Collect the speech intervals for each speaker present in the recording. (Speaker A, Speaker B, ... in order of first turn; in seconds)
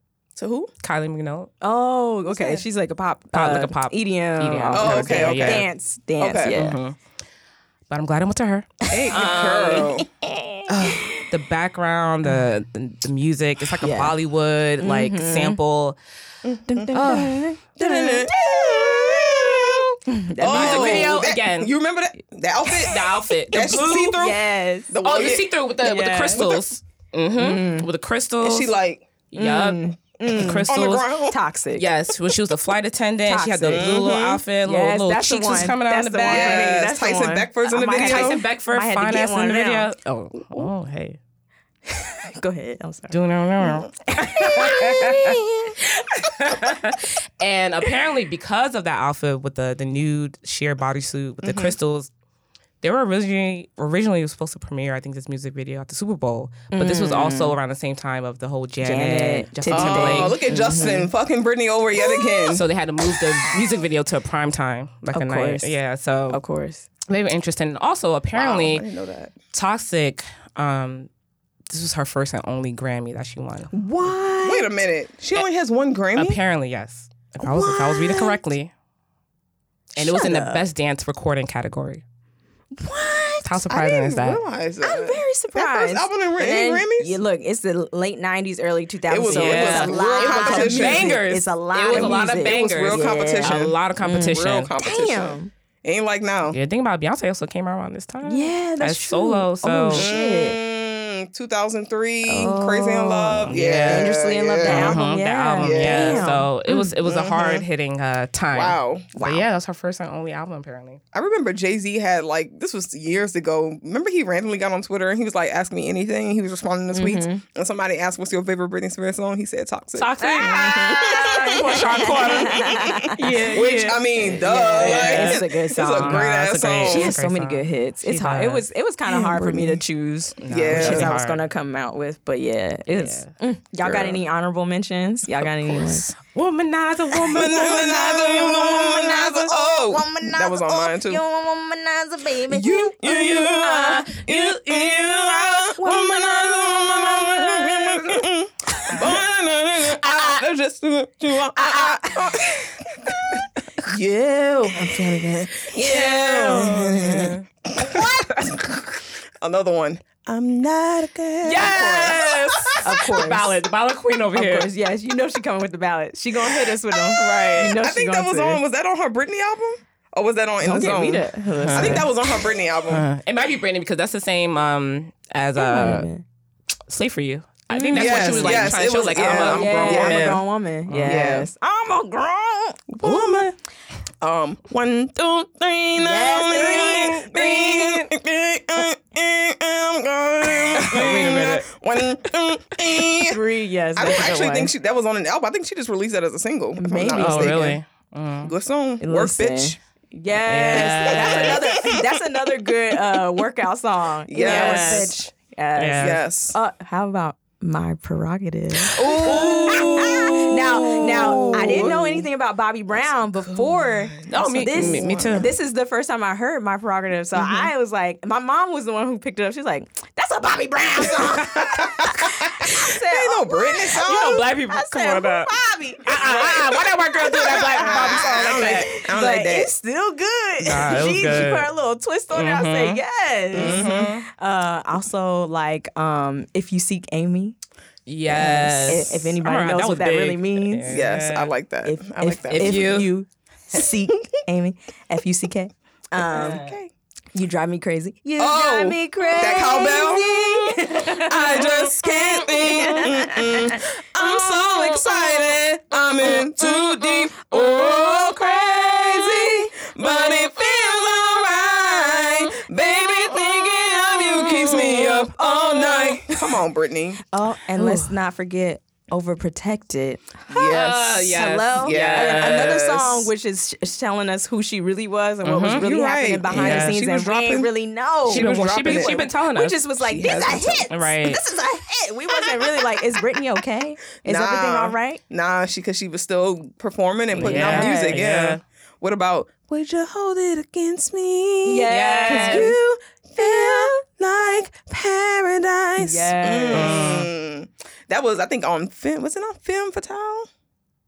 Speaker A: 0.3-0.7, 2.3-2.6, 4.7-5.7, 6.2-6.6, 8.9-10.1, 16.4-17.1, 17.8-25.6, 26.3-26.6, 28.4-29.1, 30.7-31.4, 33.7-34.4, 36.2-38.4, 51.4-51.7, 59.7-62.6, 68.3-69.3, 74.4-76.4, 83.7-87.2, 89.1-91.2, 91.9-96.6, 99.9-105.0, 105.6-107.6, 108.5-109.4, 111.1-127.1, 129.1-129.8, 130.5-131.1, 133.8-134.2, 137.2-141.2, 142.5-153.2, 154.7-158.7, 159.4-162.9, 166.9-173.0, 177.9-180.4, 181.0-181.5, 182.9-183.5, 184.2-193.4, 193.9-197.8, 198.4-199.8, 201.0-202.1, 204.3-205.2, 206.0-206.6, 208.9-212.3, 213.3-215.5, 217.3-217.7, 221.8-224.4, 227.5-229.7, 233.5-234.2, 238.3-239.0, 240.9-243.1, 246.2-246.9, 248.4-267.2, 270.5-273.3, 275.7-277.7, 278.2-279.3, 280.0-280.9, 282.3-282.8, 284.2-300.5
Speaker B: 0.8-1.5, 3.3-5.7, 6.5-7.0, 7.9-10.0, 10.7-16.0, 16.9-17.5, 20.5-21.7, 22.8-24.2, 25.0-28.7, 29.3-29.8, 30.3-31.1, 31.7-36.8, 38.0-41.2, 43.1-45.5, 46.1-52.1, 52.8-60.4, 62.5-66.4, 67.1-68.8, 69.5-71.1, 71.7-73.7, 76.2-78.7, 80.0-82.0, 83.4-84.4, 89.3-94.7, 96.5-100.1, 103.4-104.1, 104.6-111.0, 119.9-128.6, 130.4-131.4, 132.9-133.3, 136.2-138.0, 144.3-144.9, 155.8-157.4, 157.9-158.7, 161.4-164.7, 171.6-172.1, 172.9-176.1, 176.9-181.2, 183.0-183.5, 186.8-188.0, 190.7-191.7, 197.2-198.5, 200.5-201.8, 204.4-205.2, 205.8-206.2, 209.1-212.0, 214.3-215.5, 224.0-225.5, 226.0-228.9, 230.6-231.7, 232.3-233.0, 233.5-234.2, 238.1-241.5, 242.5-243.1, 246.3-246.7, 263.9-265.3, 267.8-268.1, 270.7-272.8, 275.4-275.8, 276.5-277.0, 278.3-279.8, 280.9-281.4, 287.4-288.6, 291.9-292.7, 296.7-297.3
Speaker C: 1.6-6.8, 9.1-11.2, 13.8-14.1, 14.8-15.6, 16.7-21.2, 24.1-24.9, 25.8-26.4, 27.4-27.9, 29.3-30.7, 31.3-31.9, 33.2-34.0, 34.6-39.9, 41.9-43.1, 44.1-45.7, 56.7-57.6, 58.8-61.1, 65.1-65.8, 66.3-66.9, 73.7-74.7, 77.4-78.4, 80.0-80.6, 82.8-83.7, 84.8-95.5, 98.2-100.6, 102.3-106.9, 116.9-117.4, 120.2-126.2, 126.9-136.1, 137.4-144.2, 144.9-148.2, 149.9-150.4, 151.6-152.4, 153.9-156.8, 162.8-163.5, 164.3-168.6, 170.6-172.1, 175.6-176.2, 177.7-182.9, 186.0-187.7, 193.2-194.7, 196.8-197.7, 199.0-237.6, 238.3-240.9, 241.8-246.7, 247.3-253.8, 254.5-255.4, 257.5-259.6, 263.2-266.2, 267.3-285.2, 287.3-288.2, 291.6-292.8, 293.4-293.9, 296.0-296.9